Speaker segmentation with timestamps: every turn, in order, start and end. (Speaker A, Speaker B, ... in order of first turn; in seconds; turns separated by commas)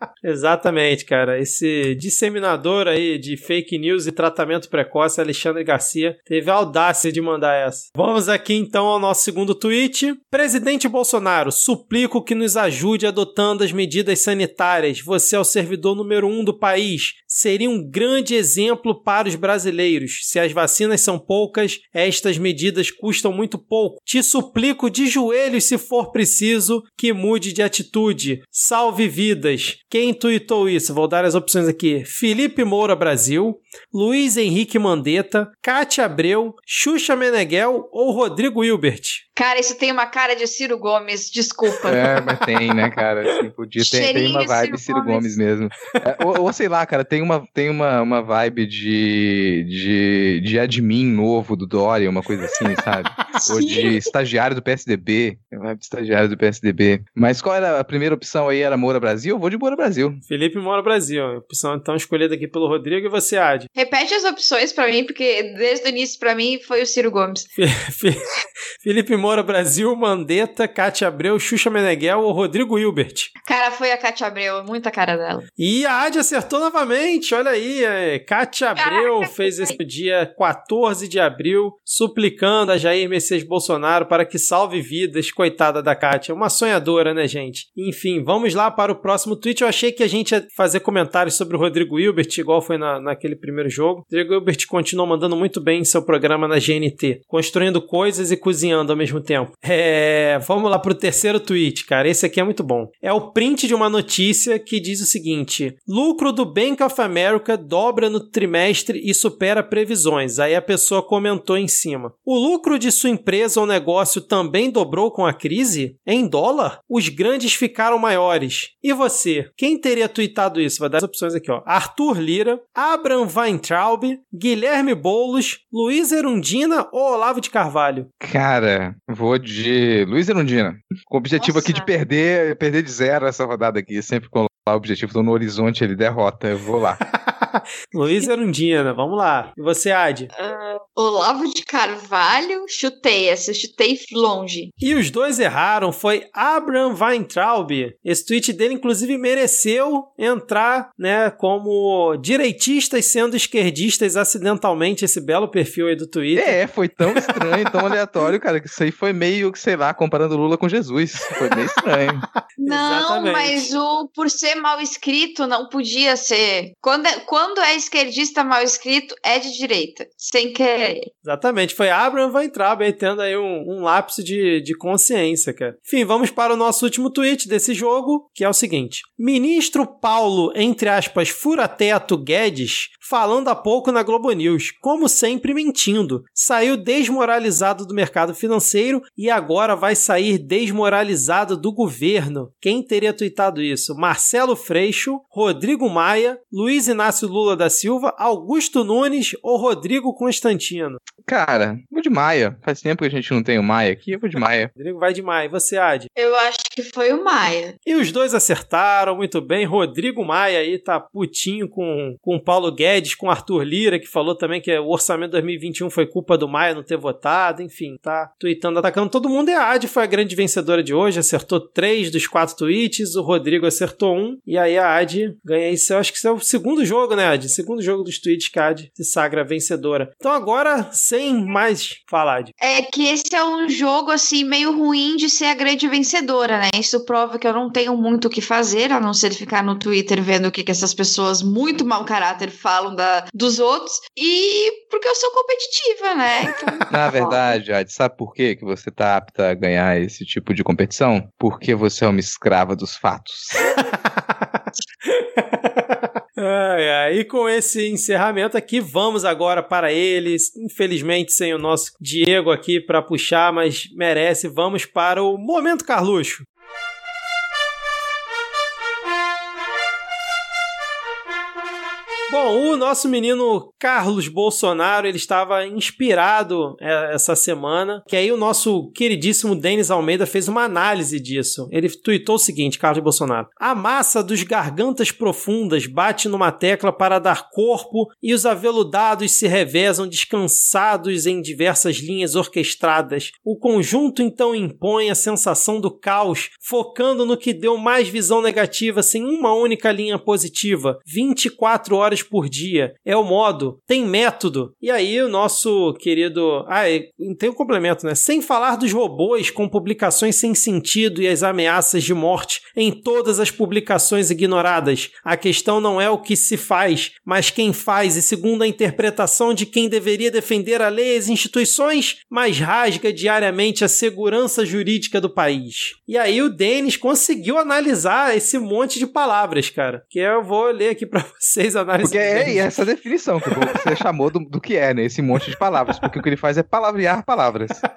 Speaker A: 0.2-39.2, Speaker B: 39.4-42.1, Speaker C: 41.8-60.2, Speaker B: 43.8-45.4, Speaker B: 53.5-54.1, Speaker A: 60.3-63.7, Speaker B: 63.7-67.5, Speaker A: 67.6-68.3, Speaker A: 68.8-73.3, Speaker B: 73.5-75.4, Speaker A: 75.6-128.1, Speaker B: 78.8-79.8, Speaker C: 128.2-137.0, Speaker B: 131.4-131.9, Speaker A: 137.1-140.3, Speaker B: 140.3-144.7, Speaker A: 144.8-156.6, Speaker C: 156.3-162.2, Speaker A: 157.1-157.4, Speaker B: 162.6-171.1, Speaker A: 162.6-163.7, Speaker A: 171.2-201.0, Speaker C: 201.2-204.7, Speaker A: 204.7-206.1, Speaker B: 206.2-207.8, Speaker A: 207.8-232.5, Speaker B: 232.6-247.5, Speaker C: 246.9-253.7, Speaker A: 255.0-266.5, Speaker A: 272.3-332.8, Speaker C: 332.0-337.8